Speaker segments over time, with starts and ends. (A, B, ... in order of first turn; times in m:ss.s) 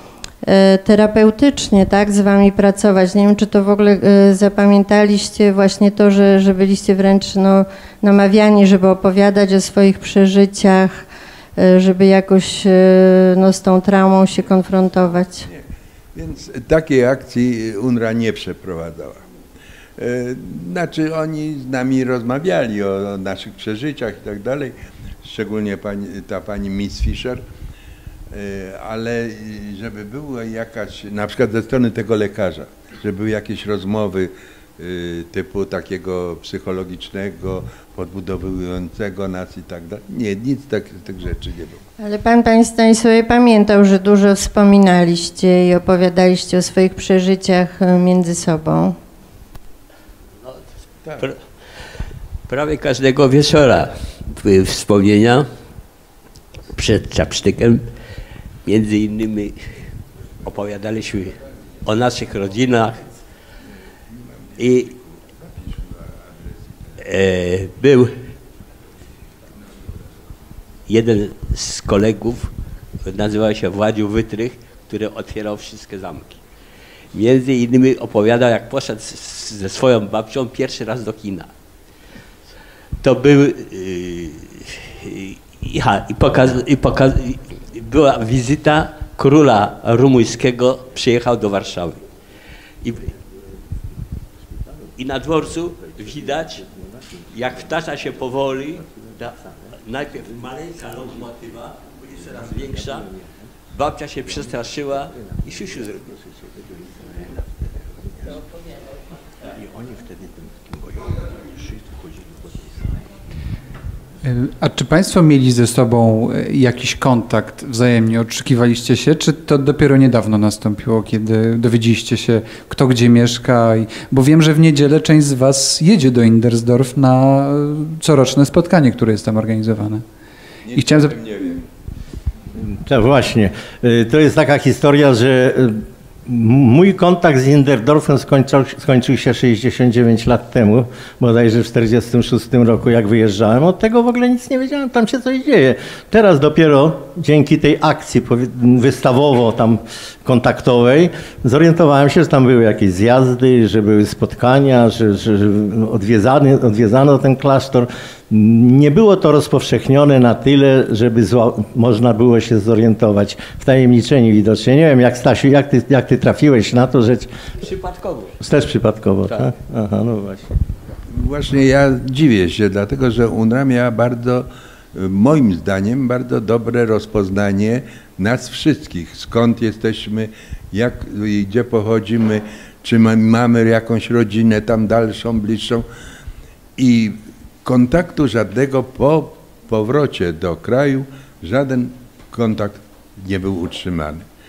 0:00.4-0:11.0 A
0:11.6-0:15.5 A
0:15.5-0:19.2 B
0:20.0-0:27.4 B
0:28.3-0:41.8 B
0:42.0-0:49.0 A
0:50.4-0:50.7 C
0:52.5-0:55.5 C
0:56.7-0:57.8 C
0:58.6-0:59.6 C
1:00.4-1:03.1 C
1:04.1-1:07.0 B
1:04.6-1:04.9 C
1:07.0-1:08.1 C
1:10.9-1:12.5 C
1:13.0-1:16.4 C
1:17.1-1:21.5 C
1:23.0-1:32.0 C
1:32.8-1:33.1 C
1:35.0-1:36.7 C
1:37.2-1:43.2 C
1:43.7-1:46.2 C
1:46.6-1:47.5 D
1:49.4-1:53.0 D
1:54.2-2:10.0 E
2:10.6-2:11.7 B
2:10.8-2:11.2 E
2:12.6-2:47.3 D
2:47.6-2:48.4 C
2:48.4-2:50.5 D
2:49.2-2:49.6 C
2:51.1-3:05.9 B
3:06.8-3:14.2 B